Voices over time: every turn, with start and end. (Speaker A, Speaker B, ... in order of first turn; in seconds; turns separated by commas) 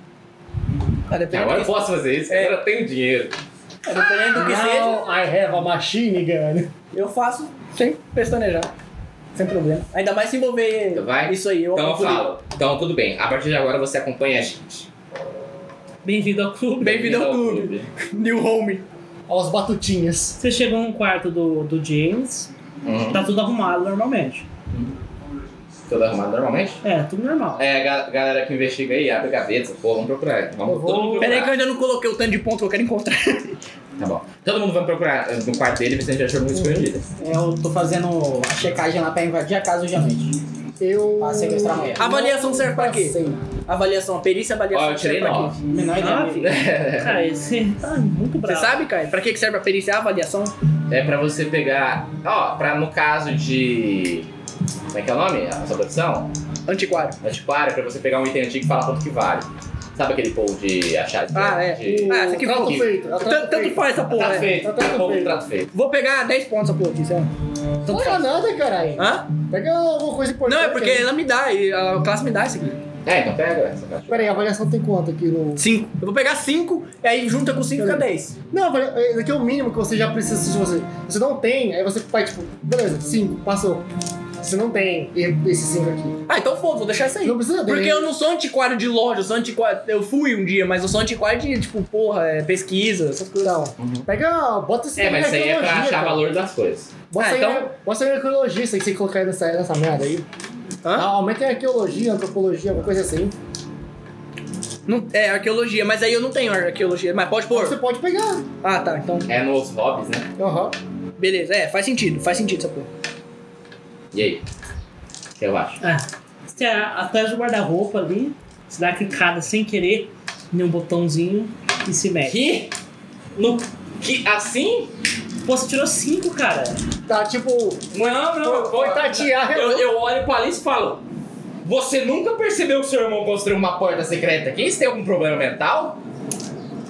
Speaker A: 1.1-2.6, Speaker B: 1.3-3.4, Speaker A: 3.8-5.0, Speaker C: 4.3-6.7, Speaker A: 6.9-8.7, Speaker A: 9.3-12.3, Speaker B: 10.9-14.9, Speaker D: 16.0-17.1, Speaker B: 16.8-17.9, Speaker A: 16.8-18.8, Speaker C: 19.3-20.4, Speaker D: 20.4-22.5, Speaker B: 22.8-23.2, Speaker D: 23.1-24.4, Speaker B: 25.9-26.8, Speaker D: 26.8-27.6, Speaker B: 27.6-31.6, Speaker C: 30.6-31.5, Speaker A: 31.2-33.6, Speaker B: 34.0-37.0, Speaker C: 36.5-36.9, Speaker E: 37.2-40.4, Speaker C: 40.8-43.5, Speaker E: 41.2-42.1, Speaker A: 42.0-45.6, Speaker B: 44.7-45.5, Speaker E: 45.6-46.5, Speaker D: 46.0-48.8, Speaker B: 46.4-47.2, Speaker A: 48.4-50.5, Speaker B: 50.9-54.3, Speaker B: 54.9-56.3, Speaker A: 56.7-57.2, Speaker B: 57.2-62.9, Speaker A: 61.3-64.5, Speaker C: 61.8-65.4, Speaker B: 64.1-65.7, Speaker A: 65.7-67.3, Speaker C: 67.8-71.1, Speaker A: 67.9-68.2, Speaker A: 69.0-69.3, Speaker A: 70.5-72.8, Speaker B: 73.0-74.5, Speaker C: 74.1-75.7, Speaker A: 75.6-78.3, Speaker C: 77.8-83.9, Speaker C: 84.4-86.2, Speaker A: 86.3-93.6, Speaker C: 87.2-88.1, Speaker C: 93.4-96.3, Speaker B: 93.8-94.1, Speaker B: 95.0-97.0, Speaker C: 97.1-100.3, Speaker A: 97.2-97.7, Speaker A: 100.8-101.1, Speaker C: 100.9-103.3, Speaker A: 104.9-107.8, Speaker C: 107.5-108.5, Speaker A: 108.6-109.3, Speaker B: 109.3-110.3, Speaker C: 110.4-110.7, Speaker A: 111.2-112.9, Speaker B: 114.1-114.4, Speaker B: 115.4-115.8, Speaker D: 115.8-122.4, Speaker B: 122.2-122.7, Speaker B: 123.3-124.9, Speaker D: 125.4-126.8, Speaker C: 127.1-129.9, Speaker B: 127.9-131.0, Speaker D: 127.9-128.8, Speaker B: 131.6-136.0